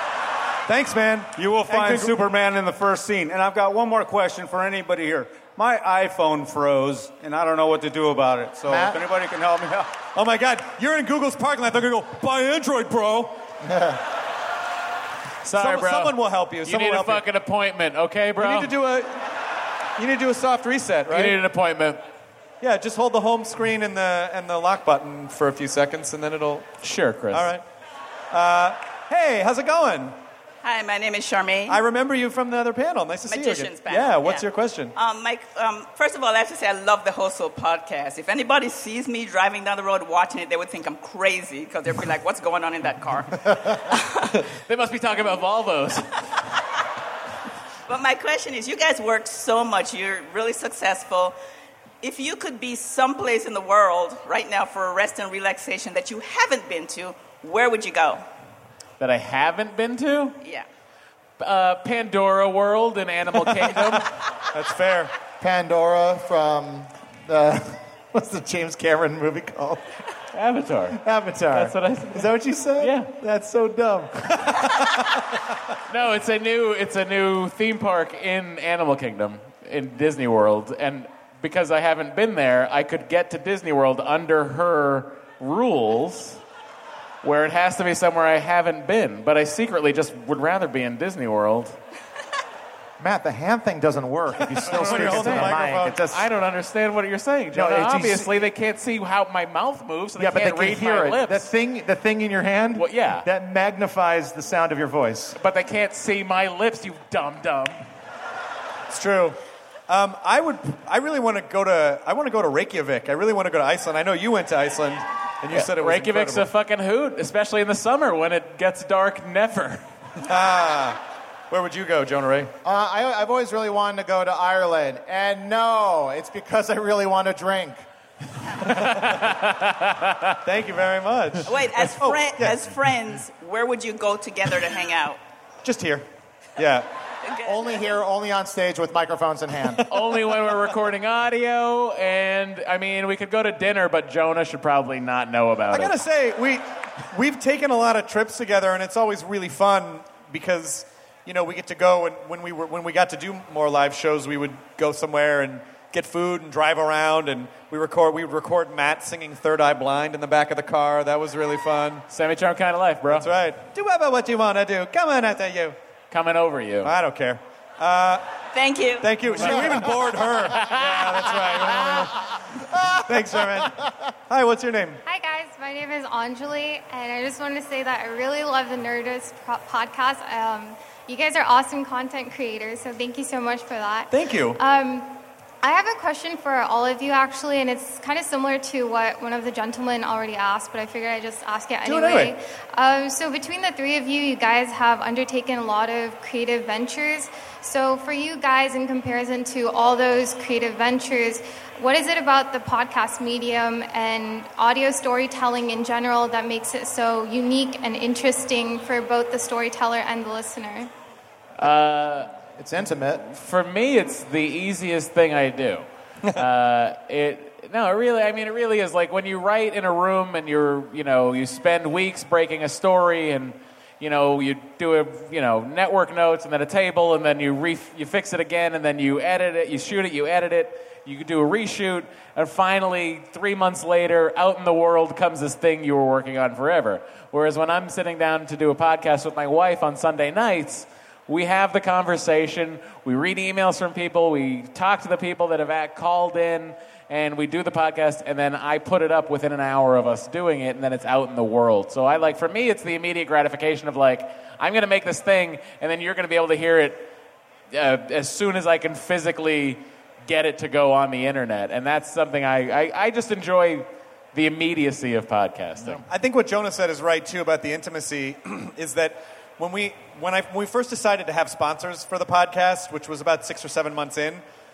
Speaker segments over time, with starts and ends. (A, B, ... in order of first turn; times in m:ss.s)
0:00.6-0:02.2 A
0:01.4-0:09.9 B
0:08.7-0:09.0 C
0:10.1-0:13.4 A
0:13.6-0:14.0 C
0:15.4-0:18.7 D
0:15.6-0:17.2 A
0:18.4-0:19.2 A
0:20.0-0:21.4 A
0:21.1-0:22.0 D
0:22.6-0:26.7 A
0:26.8-0:27.5 D
0:27.3-0:27.6 A
0:28.3-0:30.1 A
0:30.6-0:31.8 E
0:31.7-0:34.9 A
0:33.3-0:44.3 E
0:44.5-0:46.1 D
0:47.9-0:51.4 E
0:52.0-0:58.2 E
0:59.0-1:00.4 D
1:01.4-1:04.1 D
1:04.5-1:05.1 A
1:05.4-1:09.8 C
1:10.3-1:11.0 D
1:10.9-1:14.9 C
1:11.5-1:13.1 D
1:15.9-1:26.4 D
1:27.2-1:31.8 D
1:33.0-1:36.3 C
1:34.6-1:41.5 D
1:34.6-1:36.0 A
1:37.5-1:38.4 C
1:40.2-1:45.4 C
1:42.8-1:43.2 D
1:45.4-1:47.8 D
1:48.9-1:56.4 A
1:55.5-1:59.8 D
2:00.2-2:01.0 A
2:01.5-2:02.5 A
2:02.6-2:07.8 C
2:08.6-2:10.3 D
2:10.4-2:12.6 A
2:11.4-2:15.2 E
2:15.6-2:16.0 A
2:16.6-2:16.8 A
2:17.3-2:17.8 E
2:17.4-2:19.8 C
2:19.9-2:25.9 D
2:25.7-2:42.0 A
2:42.1-2:43.3 D
2:43.1-2:45.8 A
2:46.1-2:46.9 D
2:46.8-2:48.2 A
2:48.5-2:49.1 E
2:49.0-2:55.0 A
2:49.3-2:49.9 D
2:50.5-2:52.1 D
2:55.1-3:05.1 F
3:04.1-3:04.6 A
3:05.6-3:30.9 F
3:11.8-3:12.3 A
3:31.6-3:32.3 D
3:32.6-3:33.2 C
3:33.3-4:17.1 D
4:17.7-4:26.0 D
4:26.1-4:34.4 A